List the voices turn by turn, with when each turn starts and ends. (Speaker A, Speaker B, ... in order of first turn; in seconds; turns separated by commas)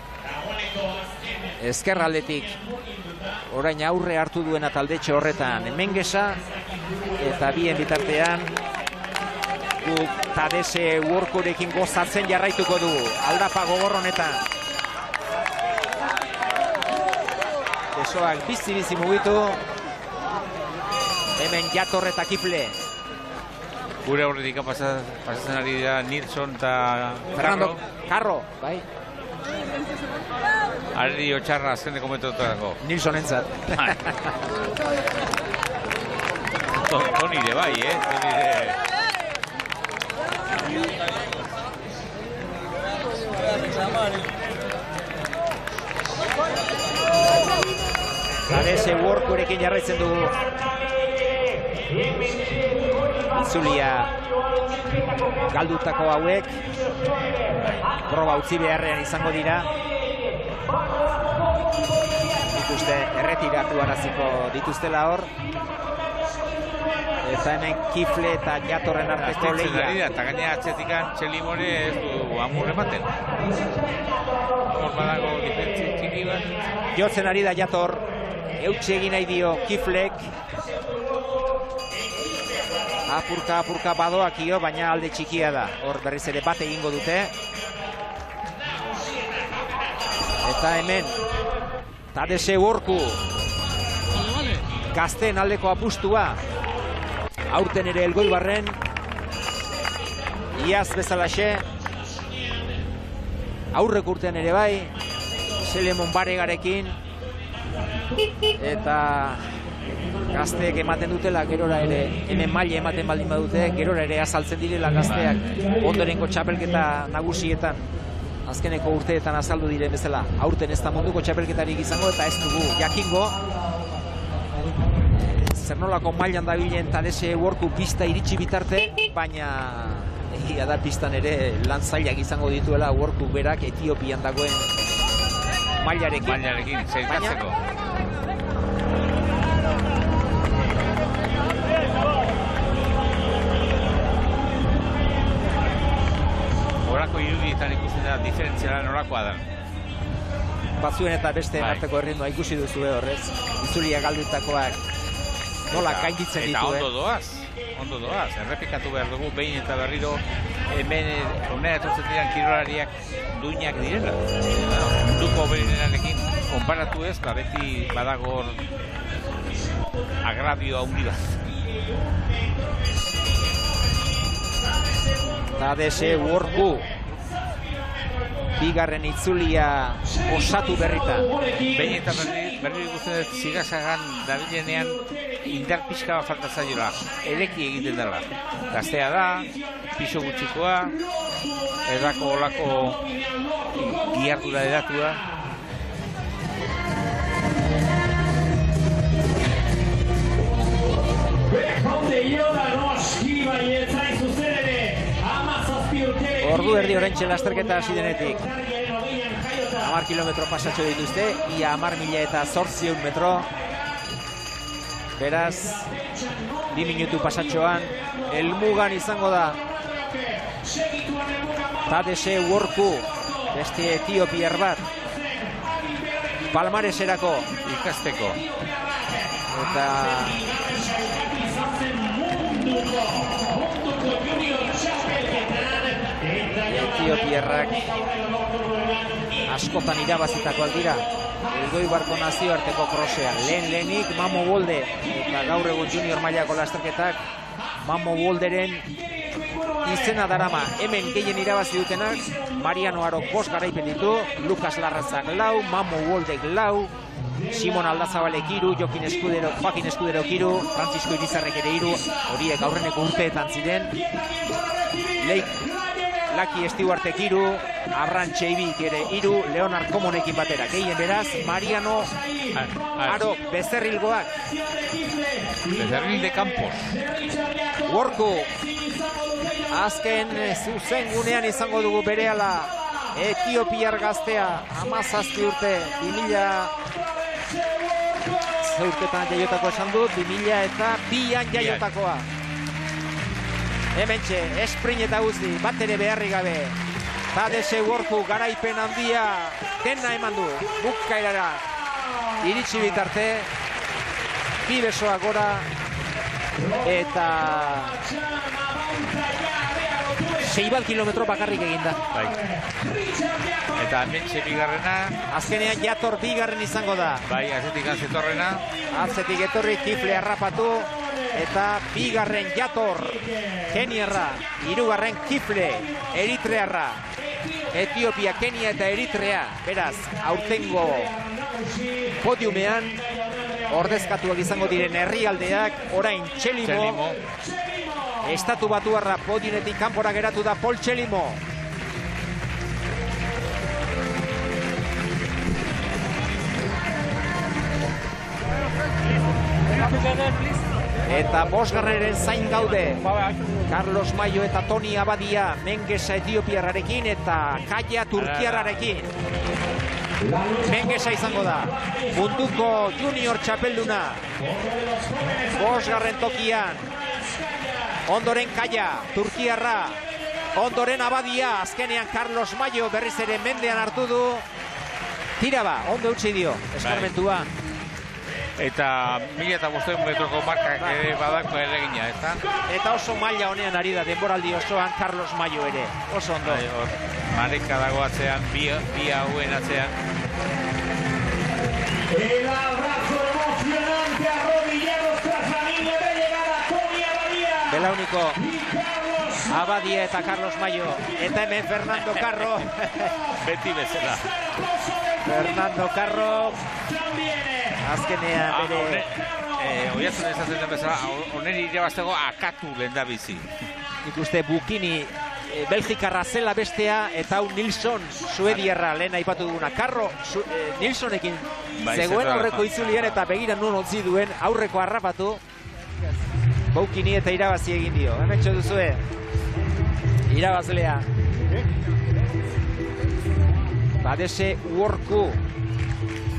Speaker A: 0.2-1.6, Speaker B: 1.6-2.6, Speaker A: 2.3-3.4, Speaker B: 3.5-6.4, Speaker A: 5.5-8.8, Speaker B: 7.2-8.5, Speaker B: 9.8-14.4, Speaker B: 17.9-19.6, Speaker B: 21.4-22.8, Speaker C: 24.0-27.8, Speaker B: 27.4-28.8, Speaker C: 30.9-32.8, Speaker B: 32.8-34.3, Speaker C: 36.8-38.8, Speaker B: 48.5-50.4, Speaker B: 53.3-54.1, Speaker B: 55.5-56.7, Speaker C: 57.5-57.8, Speaker B: 58.0-59.7, Speaker B: 62.5-65.3, Speaker B: 67.2-70.0, Speaker C: 69.2-73.1, Speaker C: 74.7-76.5, Speaker B: 76.9-80.3, Speaker B: 83.1-87.3, Speaker A: 88.7-89.5, Speaker B: 90.4-91.2, Speaker B: 92.1-93.2, Speaker B: 94.9-96.4, Speaker B: 97.5-98.8, Speaker B: 100.5-101.6, Speaker B: 103.7-104.9, Speaker B: 105.6-107.0, Speaker B: 108.6-109.5, Speaker B: 110.3-117.9, Speaker C: 115.0-115.6, Speaker B: 118.5-123.4, Speaker B: 125.1-134.7, Speaker B: 135.8-136.4, Speaker C: 136.2-137.6, Speaker B: 137.1-137.4, Speaker C: 146.8-149.4, Speaker B: 150.8-154.8, Speaker C: 151.6-151.8, Speaker B: 155.7-156.9, Speaker C: 155.7-168.6, Speaker A: 169.6-170.0, Speaker C: 170.2-171.4, Speaker A: 171.5-173.2, Speaker A: 175.3-178.6, Speaker B: 175.5-176.9, Speaker B: 178.6-181.3, Speaker A: 180.1-182.6, Speaker C: 181.7-191.0, Speaker A: 185.0-185.3, Speaker A: 187.1-190.3, Speaker A: 190.9-191.8, Speaker C: 191.8-193.0, Speaker A: 192.6-195.5, Speaker C: 193.7-195.2, Speaker A: 201.4-210.0, Speaker B: 206.4-208.5, Speaker B: 209.8-213.5, Speaker B: 215.2-215.9, Speaker A: 215.3-223.9, Speaker B: 216.7-219.6, Speaker B: 221.9-224.9, Speaker A: 224.9-226.5, Speaker B: 226.5-227.5, Speaker C: 227.6-228.4, Speaker A: 228.2-242.2, Speaker B: 229.5-230.4, Speaker B: 236.7-237.8, Speaker B: 239.5-247.2, Speaker B: 247.8-248.9, Speaker A: 248.9-250.9, Speaker B: 249.8-256.9, Speaker A: 252.0-254.2, Speaker A: 257.3-260.3, Speaker B: 257.5-263.9, Speaker A: 261.8-263.2, Speaker A: 263.9-267.1, Speaker B: 265.2-265.6, Speaker B: 266.3-272.1, Speaker A: 271.4-273.4, Speaker C: 272.5-273.3, Speaker B: 273.1-274.4, Speaker A: 274.3-280.0, Speaker C: 275.8-277.0, Speaker B: 277.9-278.5, Speaker B: 279.7-286.7, Speaker A: 286.8-288.5, Speaker B: 288.6-292.2, Speaker C: 291.5-291.8, Speaker B: 293.9-296.8, Speaker B: 297.3-301.7, Speaker B: 302.4-303.5, Speaker B: 304.6-305.7, Speaker A: 306.6-307.1, Speaker B: 306.8-308.0, Speaker A: 307.7-310.6, Speaker B: 310.4-312.0, Speaker A: 312.1-314.1, Speaker C: 312.1-312.4, Speaker C: 313.8-315.2, Speaker B: 315.3-317.2, Speaker C: 317.2-318.6, Speaker A: 318.8-321.4, Speaker B: 318.9-327.1, Speaker A: 323.1-326.5, Speaker A: 327.1-328.3, Speaker B: 327.7-331.1, Speaker A: 329.8-338.6, Speaker B: 332.2-333.0, Speaker B: 333.7-337.0, Speaker C: 336.6-337.2, Speaker B: 338.2-341.4, Speaker B: 351.1-353.0, Speaker B: 353.6-359.1, Speaker C: 358.1-359.0, Speaker A: 360.2-368.0, Speaker B: 360.6-364.2, Speaker B: 365.5-366.9, Speaker B: 368.1-370.0, Speaker B: 370.5-374.4, Speaker B: 375.4-377.5, Speaker C: 376.8-377.1, Speaker C: 378.6-382.4, Speaker B: 380.8-381.1, Speaker B: 382.7-386.6, Speaker C: 386.4-389.9, Speaker A: 392.1-399.8, Speaker B: 397.7-398.4, Speaker B: 399.5-403.1, Speaker A: 401.0-401.4, Speaker C: 402.0-402.5, Speaker A: 402.9-403.4, Speaker C: 403.3-404.3, Speaker A: 403.9-408.5, Speaker B: 405.2-406.6, Speaker B: 407.8-409.1, Speaker C: 408.4-413.5, Speaker A: 409.1-410.2, Speaker B: 414.0-425.4, Speaker C: 418.5-418.7, Speaker C: 421.8-423.2, Speaker B: 426.7-429.0, Speaker B: 430.3-431.1, Speaker B: 434.0-435.4